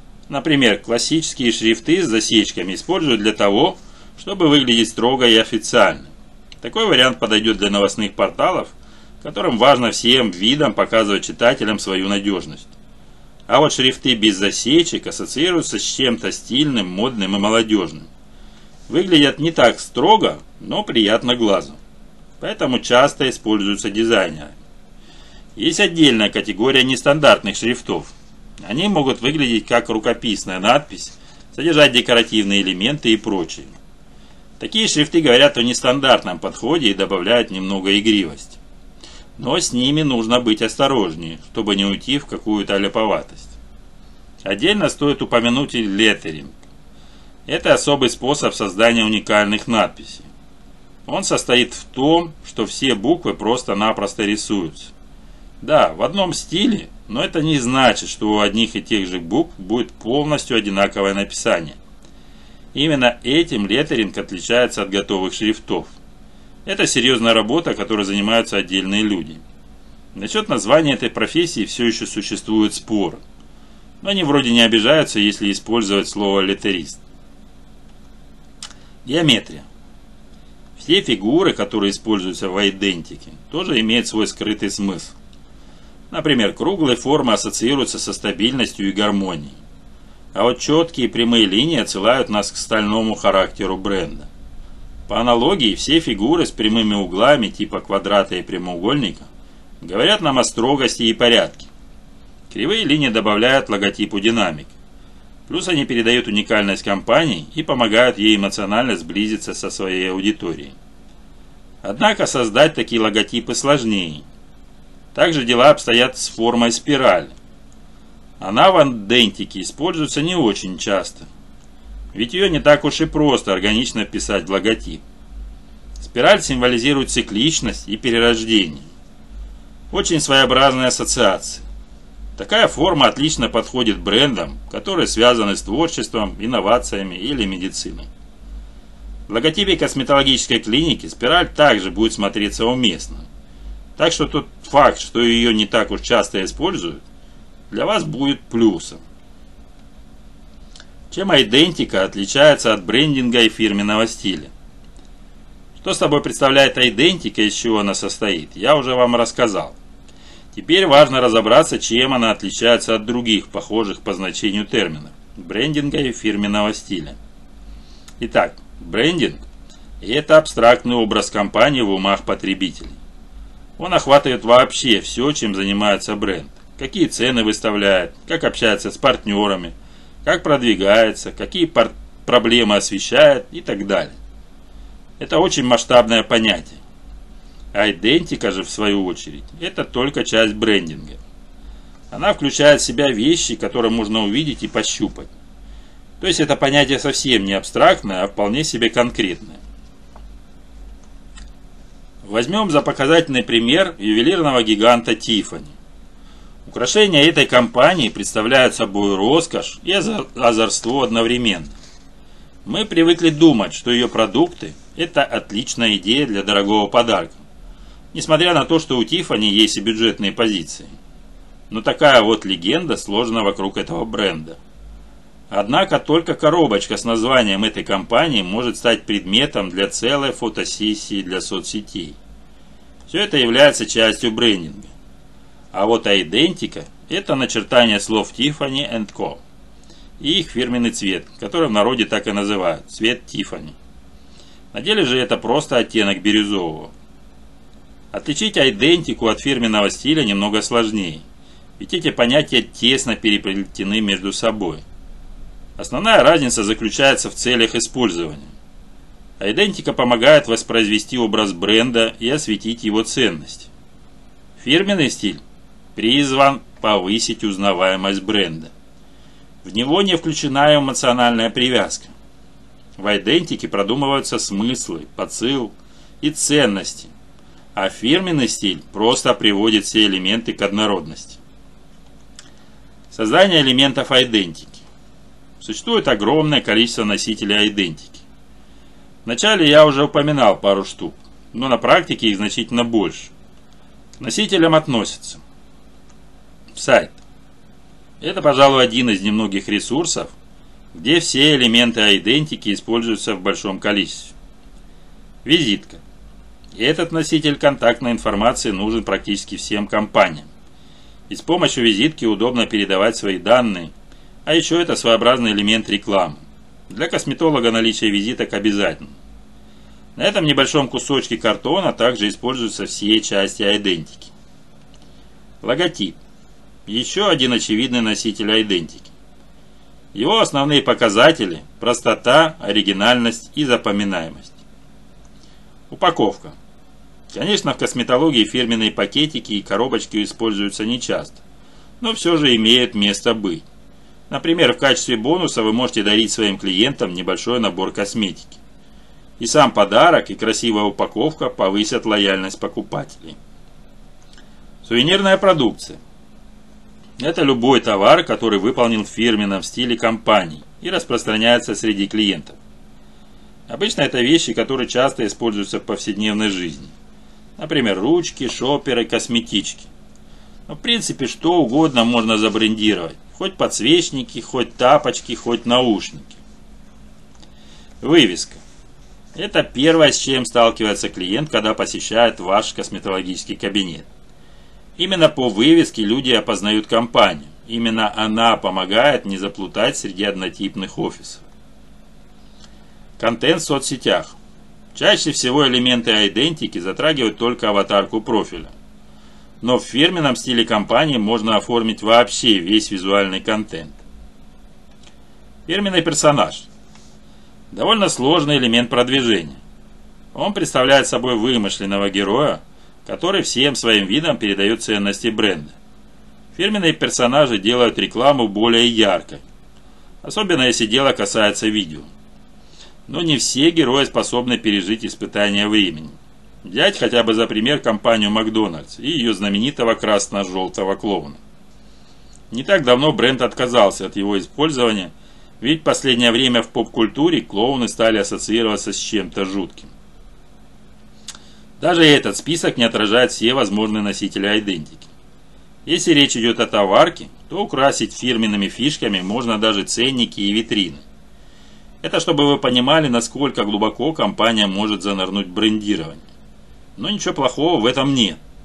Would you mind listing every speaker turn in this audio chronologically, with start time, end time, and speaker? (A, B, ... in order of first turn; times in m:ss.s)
0:00.3-0:12.7 A
0:13.5-0:18.1 A
0:18.9-0:21.8 A
0:22.4-0:24.6 A
0:25.6-0:33.7 A
0:34.6-0:38.6 A
0:39.4-0:43.6 A
0:44.4-0:46.5 A
0:47.5-0:50.3 A
0:51.0-0:54.9 A
0:55.6-1:01.8 A
1:02.7-1:05.9 A
1:06.6-1:09.4 A
1:10.1-1:13.2 A
1:14.0-1:17.0 A
1:19.0-1:19.7 A
1:20.8-1:25.1 A
1:26.1-1:29.6 A
1:30.3-1:34.3 A
1:35.1-1:39.3 A
1:39.8-1:41.7 A
1:42.5-1:44.7 A
1:45.5-1:50.7 A
1:51.8-1:54.2 A
1:55.1-1:57.3 A
1:58.4-2:01.3 A
2:02.1-2:05.0 A
2:06.0-2:08.9 A
2:09.9-2:11.6 A
2:12.4-2:18.1 A
2:19.3-2:23.2 A
2:24.0-2:27.0 A
2:27.7-2:29.0 A
2:31.1-2:34.5 A
2:35.8-2:39.8 A
2:40.5-2:47.2 A
2:48.2-2:49.4 A
2:50.0-2:53.0 A
2:53.8-2:59.7 A
3:00.2-3:04.2 A
3:05.2-3:06.8 A
3:07.7-3:11.2 A
3:12.1-3:15.3 A
3:16.2-3:19.6 A
3:22.2-3:25.7 A
3:26.6-3:31.7 A
3:32.6-3:37.4 A
3:38.1-3:40.9 A
3:41.7-3:44.6 A
3:45.5-3:52.2 A
3:53.1-3:54.9 A
3:55.7-3:59.4 A
4:00.2-4:03.8 A
4:04.7-4:06.9 A
4:08.1-4:11.2 A
4:11.8-4:14.8 A
4:15.8-4:18.5 A
4:19.4-4:23.7 A
4:24.6-4:25.4 A
4:25.9-4:28.7 A
4:29.6-4:32.1 A
4:33.0-4:37.1 A
4:37.7-4:41.4 A
4:43.1-4:44.8 A
4:45.6-4:48.2 A
4:49.2-4:53.3 A
4:54.2-4:55.4 A
4:56.7-4:57.2 A
4:58.2-5:00.3 A
5:00.9-5:04.3 A
5:05.4-5:06.0 A
5:06.7-5:10.5 A
5:11.3-5:13.9 A
5:14.4-5:19.2 A
5:20.2-5:24.3 A
5:25.6-5:26.2 A
5:26.8-5:29.1 A
5:30.1-5:34.6 A
5:35.9-5:36.6 A
5:37.3-5:41.4 A
5:42.0-5:43.6 A
5:44.3-5:48.6 A
5:49.4-5:53.4 A
5:54.8-5:56.0 A
5:57.2-6:02.6 A
6:03.7-6:06.9 A
6:07.6-6:09.9 A
6:10.7-6:16.4 A
6:18.0-6:18.6 A
6:19.3-6:24.1 A
6:25.0-6:31.4 A
6:33.2-6:34.3 A
6:34.9-6:38.7 A
6:39.6-6:44.0 A
6:45.7-6:46.7 A
6:47.7-6:49.6 A
6:50.3-6:55.8 A
6:56.5-6:59.4 A
7:00.2-7:02.1 A
7:03.1-7:11.4 A
7:12.5-7:19.9 A
7:21.8-7:25.1 A
7:25.8-7:31.0 A
7:32.0-7:36.2 A
7:37.0-7:38.4 A